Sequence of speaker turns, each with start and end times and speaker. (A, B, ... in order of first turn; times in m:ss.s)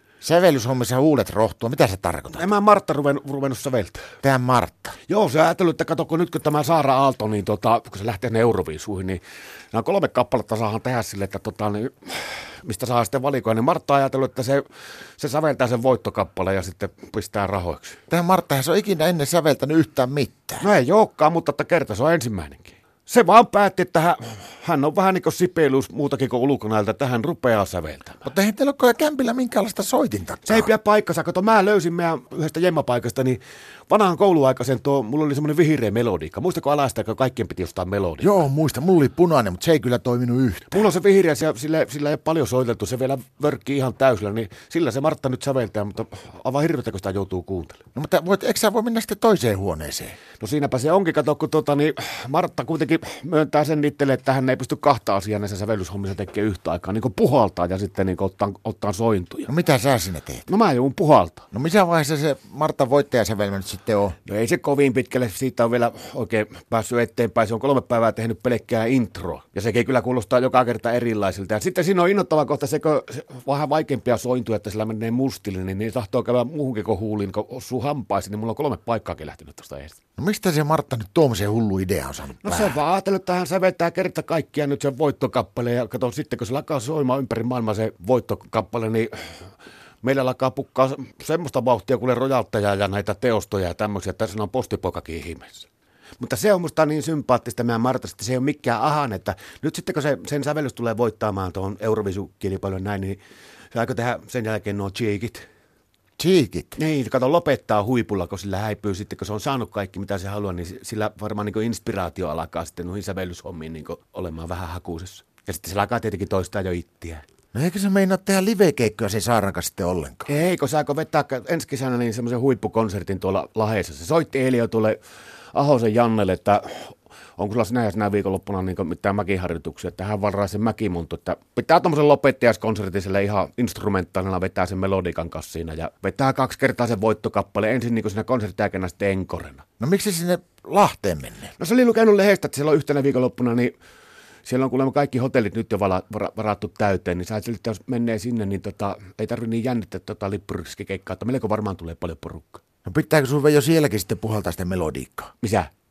0:00.2-0:02.5 A
0:02.3-0:04.1 B
0:04.2-0:04.9 A
0:05.1-0:09.2 B
0:09.7-0:14.6 B
0:15.2-0:18.0 B
0:18.1-0:20.6 A
0:20.6-0:28.3 B
0:28.2-0:30.7 A
0:30.4-0:38.3 B
0:38.2-0:40.8 A
0:40.7-0:47.8 B
0:47.9-0:50.2 A
0:50.4-0:59.5 B
0:59.5-1:00.4 A
1:00.5-1:01.5 B
1:01.5-1:04.2 A
1:04.2-1:20.0 B
1:20.2-1:22.8 A
1:22.4-1:29.3 B
1:30.0-1:35.7 B
1:36.2-1:43.2 B
1:43.7-1:45.4 B
1:46.2-1:46.8 A
1:46.8-1:57.2 B
1:57.5-2:00.3 A
2:00.2-2:05.0 B
2:05.5-2:19.6 B
2:19.8-2:21.5 A
2:21.6-2:23.7 B
2:24.4-2:32.6 B
2:32.8-2:35.3 A
2:35.4-2:35.7 B